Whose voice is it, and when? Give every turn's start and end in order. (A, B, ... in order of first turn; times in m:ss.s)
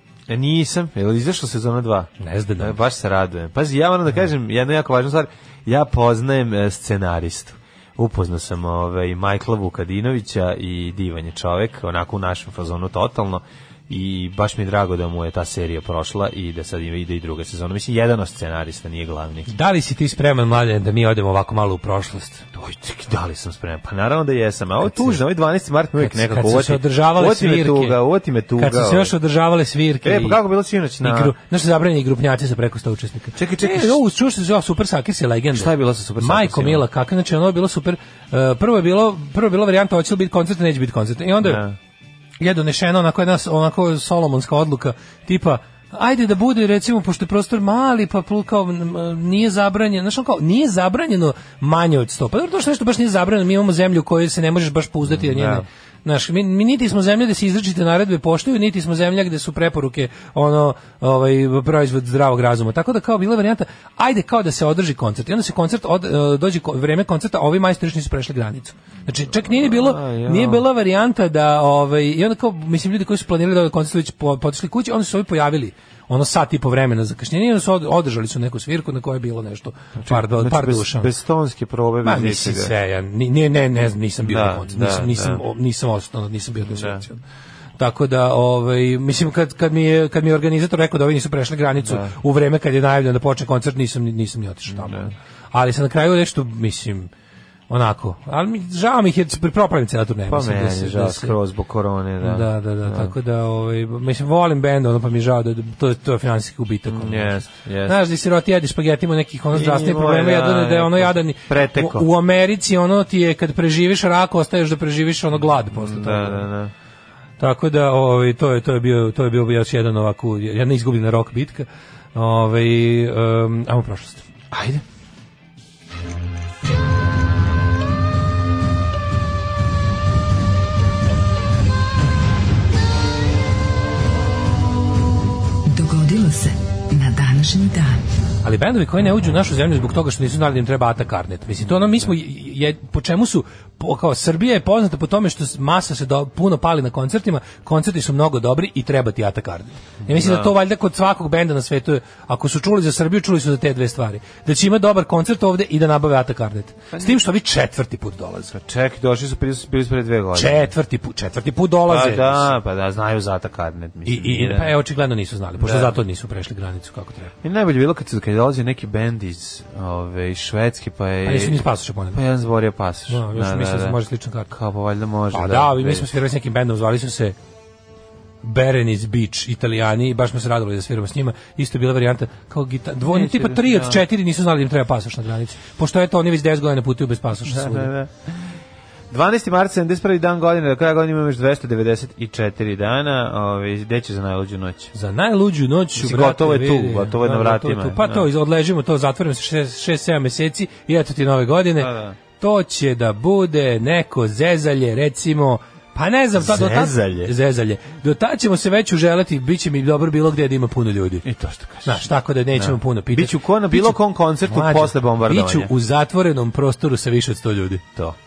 0:00.3-0:19.5 A
0:02.2-0:02.8 B
0:19.5-0:22.4 B
0:22.5-0:29.1 A
0:24.8-0:25.2 B
0:26.0-0:28.0 B
0:28.6-0:30.4 B
0:30.0-0:31.3 A
0:31.0-0:41.6 B
0:33.4-0:34.0 A
0:35.5-0:36.8 A
0:41.4-0:41.8 A
0:42.4-1:21.1 B
0:55.1-0:55.7 A
1:09.5-1:10.7 A
1:20.0-1:22.7 A
1:22.0-1:27.2 B
1:24.2-1:25.4 A
1:26.7-1:27.0 A
1:27.8-1:37.1 B
1:31.8-1:32.1 A
1:34.7-1:35.1 A
1:37.7-1:41.4 B
1:40.3-1:43.1 A
1:42.2-1:56.4 B
1:46.9-1:48.0 A
1:49.5-1:52.1 A
1:55.7-1:56.7 A
1:57.4-2:04.2 B
2:04.5-2:04.8 A
2:15.7-2:18.0 C
2:18.4-2:38.5 B
2:30.0-2:30.5 A
2:38.5-2:40.7 A
2:40.3-2:42.5 B
2:41.9-2:44.7 A
2:44.1-2:47.3 B
2:45.6-2:46.0 A
2:47.4-2:54.0 A
2:51.2-2:52.2 B
2:53.1-2:54.5 B
2:54.5-2:56.1 A
2:55.3-2:57.4 B
2:58.4-3:07.9 B
3:03.0-3:04.0 A
3:07.5-3:08.1 A
3:09.1-3:14.9 A
3:14.9-3:31.2 B
3:16.0-3:18.3 A
3:21.8-3:22.2 A
3:26.4-3:27.3 A
3:31.2-3:35.7 A
3:31.8-3:37.9 B